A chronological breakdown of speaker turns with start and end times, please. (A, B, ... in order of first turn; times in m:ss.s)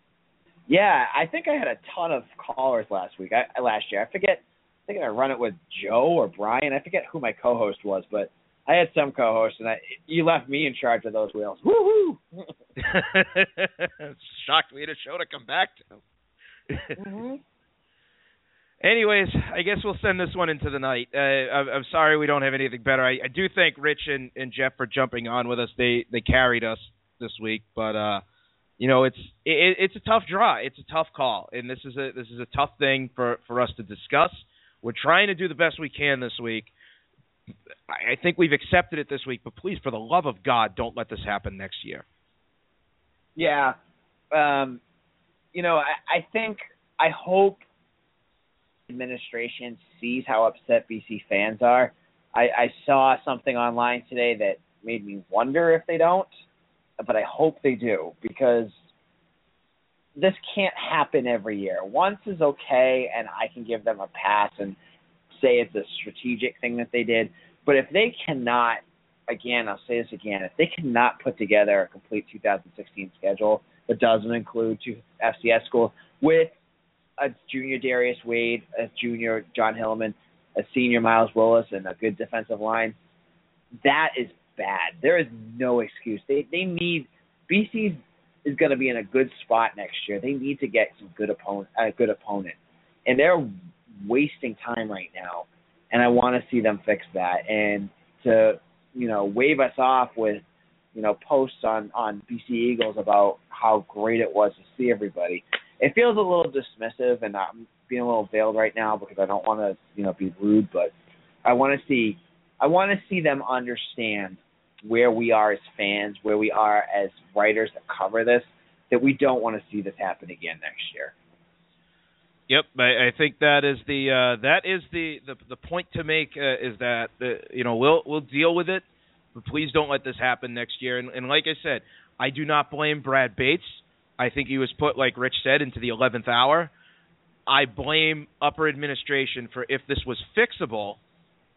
0:00.7-0:12.5 A
0:12.8-0:16.0 B
0:16.7-0:17.0 B
0:17.0-0:17.4 A
0:18.8-0:28.2 B
0:28.8-0:36.7 B
0:37.9-0:42.0 B
0:43.4-0:43.8 A
0:44.3-0:44.8 A
0:45.5-0:47.6 A
0:48.9-0:56.3 A
0:57.0-0:58.8 A
1:00.2-1:04.8 A
1:05.3-1:16.5 A
1:17.2-1:23.0 A
1:23.8-1:33.5 A
1:34.0-1:40.4 A
1:41.0-1:50.9 A
1:51.4-2:01.1 A
2:02.5-2:08.8 B
2:09.4-2:16.7 B
2:17.5-2:21.0 B